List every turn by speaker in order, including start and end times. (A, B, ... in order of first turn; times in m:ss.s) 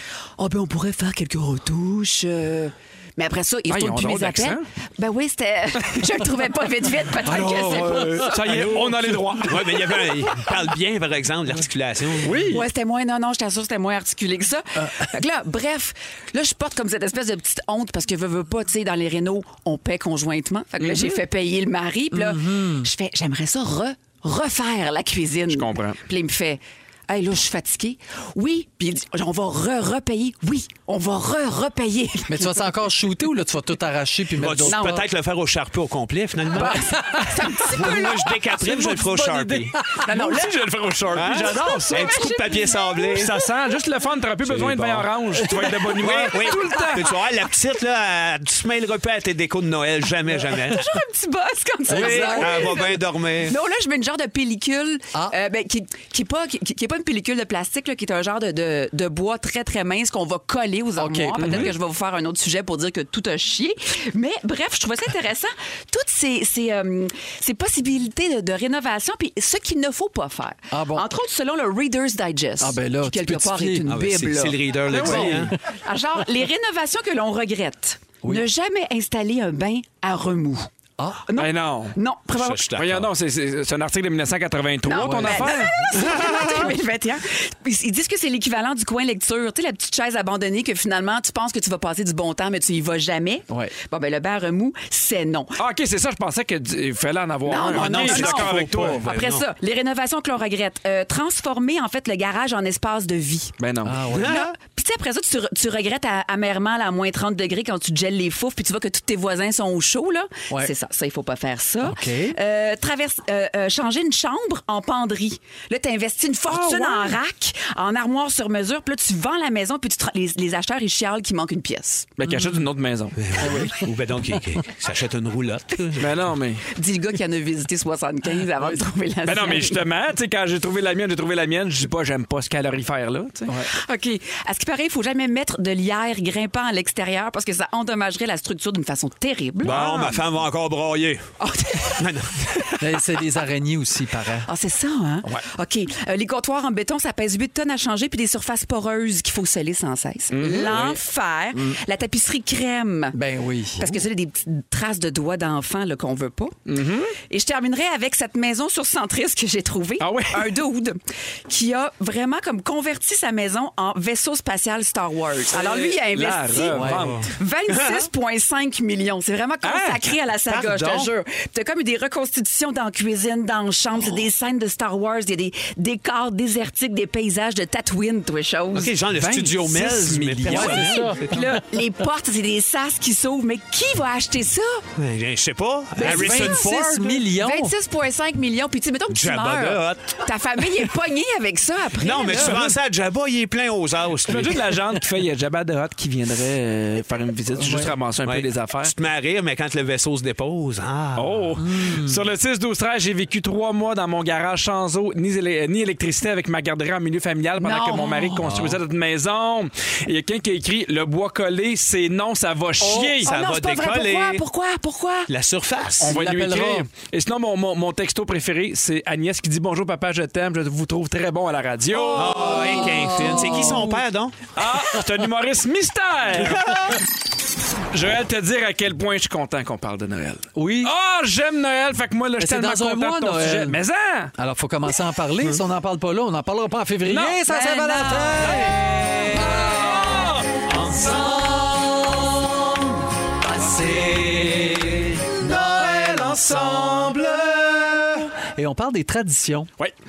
0:00.4-0:08.5 A
0:03.7-0:04.6 B
0:07.2-0:09.8 C
0:07.3-0:09.9 B
0:09.4-0:12.4 D
0:12.2-0:12.6 B
0:12.5-0:32.6 A
0:14.8-0:15.1 C
0:20.8-0:21.2 B
0:22.1-0:22.9 C
0:25.5-0:26.0 B
0:32.3-0:35.0 C
0:34.4-0:39.8 D
0:34.6-0:35.0 A
0:36.5-0:38.4 A
0:36.8-0:37.5 C
0:38.6-0:42.3 B
0:38.8-0:40.0 C
0:39.9-0:40.6 A
0:41.1-0:43.5 D
0:41.4-0:43.3 A
0:43.1-0:47.2 B
0:44.4-0:45.1 D
0:45.9-0:50.9 D
0:50.5-1:20.7 A
0:51.9-0:52.8 C
0:51.9-0:53.6 D
1:01.0-1:01.7 C
1:01.4-1:01.7 B
1:10.7-1:11.1 C
1:12.6-1:13.9 C
1:13.8-1:15.6 D
1:14.9-1:15.5 B
1:14.9-1:15.5 C
1:21.0-1:21.2 C
1:21.3-1:22.6 A
1:21.4-1:22.0 B
1:22.4-1:23.1 D
1:22.8-1:25.8 B
1:24.8-1:35.6 A
1:25.0-1:25.6 C
1:26.1-1:26.5 D
1:35.6-1:39.0 B
1:37.5-1:43.5 A
1:37.7-1:39.4 D
1:43.6-1:44.0 B
1:43.8-1:44.5 C
1:44.1-1:44.5 D
1:44.2-2:02.1 A
1:51.8-1:52.4 C
1:56.5-1:57.1 B
2:02.2-2:03.2 B
2:02.3-2:02.6 C
2:03.2-2:06.3 D
2:03.4-2:03.8 C
2:06.0-2:06.7 B
2:06.7-2:09.8 A
2:09.2-2:13.5 B
2:13.7-2:20.1 A
2:19.6-2:21.2 D
2:19.7-2:20.1 B
2:21.4-2:22.8 A
2:21.9-2:22.7 D
2:22.8-2:24.5 C
2:24.5-2:33.2 A
2:30.3-2:30.9 B
2:31.5-2:31.8 C
2:33.1-2:34.0 C
2:33.8-2:36.6 A
2:36.7-2:37.2 B
2:37.3-2:58.9 A
2:40.0-2:40.5 B
2:45.5-2:47.3 B
2:46.7-2:47.2 C
2:47.0-2:48.0 D
2:49.6-2:50.0 B
2:50.5-2:51.1 D
2:58.7-3:01.4 D
2:59.2-3:01.0 B
2:59.3-3:01.5 C
3:00.8-3:04.8 A
3:05.0-3:07.2 D
3:06.0-3:07.8 C
3:06.0-3:12.7 A
3:09.1-3:10.3 D
3:12.0-3:14.7 D
3:14.2-3:18.9 B
3:17.6-3:18.0 C
3:18.2-3:21.5 D
3:21.2-3:33.3 B
3:21.6-3:22.3 C
3:27.6-3:28.5 A
3:28.5-3:28.8 D
3:32.9-3:33.1 C
3:32.9-3:35.3 A
3:33.2-3:34.4 D
3:35.3-3:36.1 D
3:36.0-3:36.9 C
3:36.0-3:42.8 B
3:42.1-3:44.4 D
3:42.1-3:44.0 C
3:44.6-3:46.7 B
3:46.4-3:47.0 C
3:46.5-3:46.9 D
3:47.9-3:54.3 B
3:50.6-3:50.9 C
3:52.4-3:53.8 C
3:54.4-4:09.7 C
3:57.1-4:00.6 B
3:57.5-3:58.2 A
4:05.9-4:06.9 B